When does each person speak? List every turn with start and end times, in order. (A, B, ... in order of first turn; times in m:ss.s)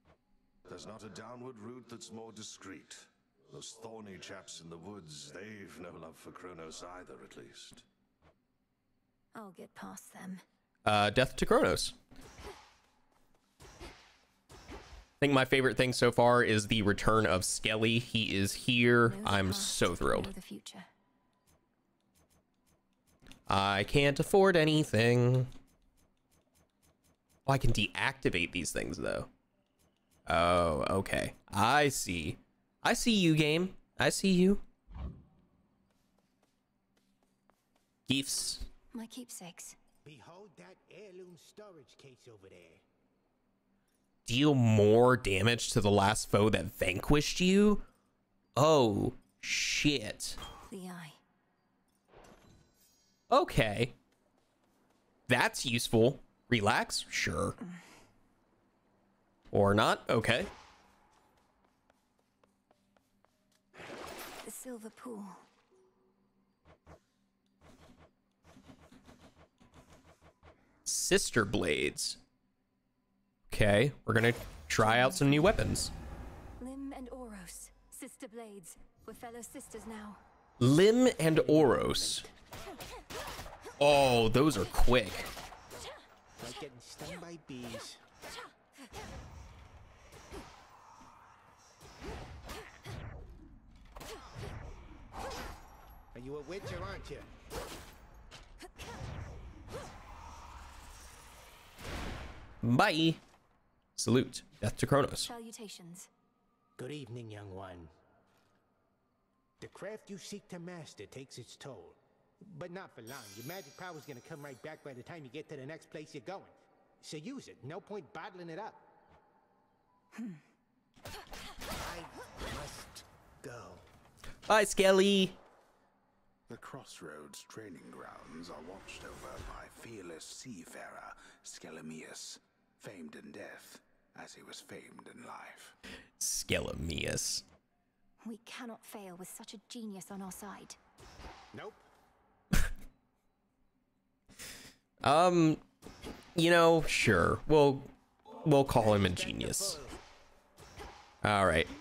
0:00.7-0:07.8 A
0:09.3-0:10.4 B
0:10.8-0:12.0 C
0:15.2-0:20.3 C
0:19.0-0:20.9 B
0:23.5-0:25.5 C
0:27.5-0:29.3 C
0:30.3-0:34.6 C
0:38.1-0:38.7 C
0:38.9-0:39.8 B
0:40.0-0:42.8 D
0:44.3-0:47.8 C
0:48.6-0:50.4 C
0:50.7-0:51.2 B
0:53.3-0:53.9 C
0:55.3-0:57.6 C
0:57.6-0:57.9 B
0:59.5-1:00.5 C
1:04.4-1:05.4 B
1:10.9-1:12.2 C
1:13.5-1:15.9 C
1:14.8-1:15.6 B
1:16.6-1:20.2 B
1:20.6-1:22.3 C
1:21.5-1:22.2 D
1:23.8-1:25.3 C
1:26.4-1:28.0 D
1:36.1-1:37.3 D
1:42.6-1:43.2 C
1:44.0-1:45.3 C
1:45.3-1:46.1 B
1:46.8-1:47.9 D
1:49.6-1:58.9 D
2:00.1-2:00.4 B
2:01.7-2:03.8 D
2:04.5-2:05.4 C
2:06.5-2:15.8 E
2:16.2-2:17.4 C
2:18.2-2:20.8 B
2:21.5-2:21.9 D
2:25.0-2:25.6 C
2:26.4-2:27.9 C
2:28.4-2:29.8 C
2:28.7-2:30.0 D
2:31.2-2:31.7 C